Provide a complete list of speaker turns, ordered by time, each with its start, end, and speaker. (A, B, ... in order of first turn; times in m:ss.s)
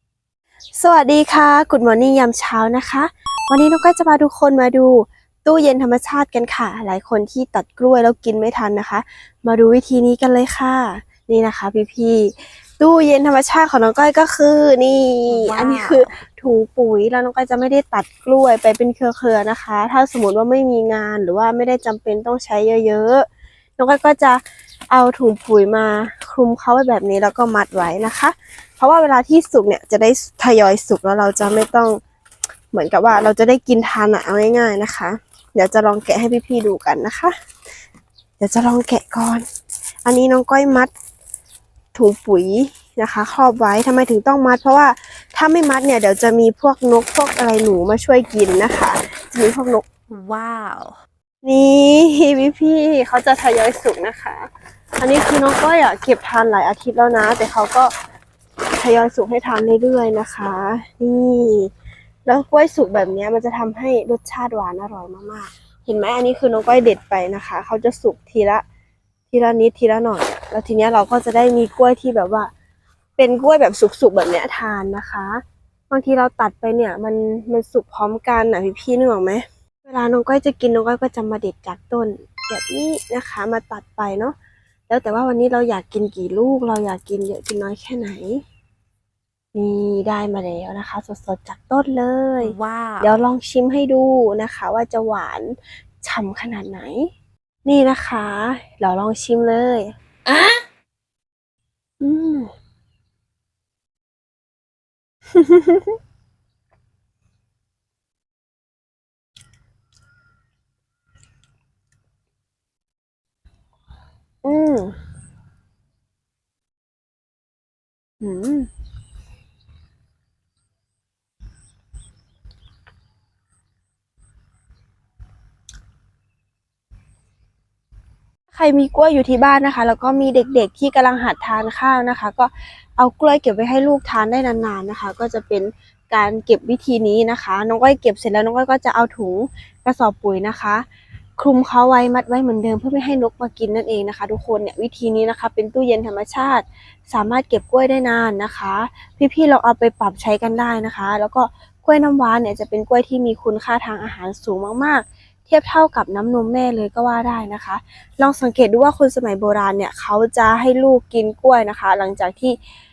0:00.8-0:23.2 A
0:15.3-0:16.2 B
0:23.8-0:32.0 A
0:32.7-0:37.3 A
0:38.4-0:39.5 A
0:40.1-0:40.9 A
0:41.9-0:49.9 A
0:50.1-0:51.0 B
0:51.4-0:54.5 A
0:55.0-0:57.9 A
0:58.7-1:01.7 A
1:02.2-1:08.6 A
1:09.3-1:12.5 A
1:13.2-1:24.4 A
1:24.9-1:28.4 A
1:29.5-1:37.1 A
1:32.4-1:33.1 B
1:37.6-1:39.9 A
1:42.0-1:42.5 A
1:45.3-1:46.0 A
1:54.4-1:55.0 A
1:58.2-1:58.7 A
2:08.5-2:20.8 A
2:21.4-2:42.6 A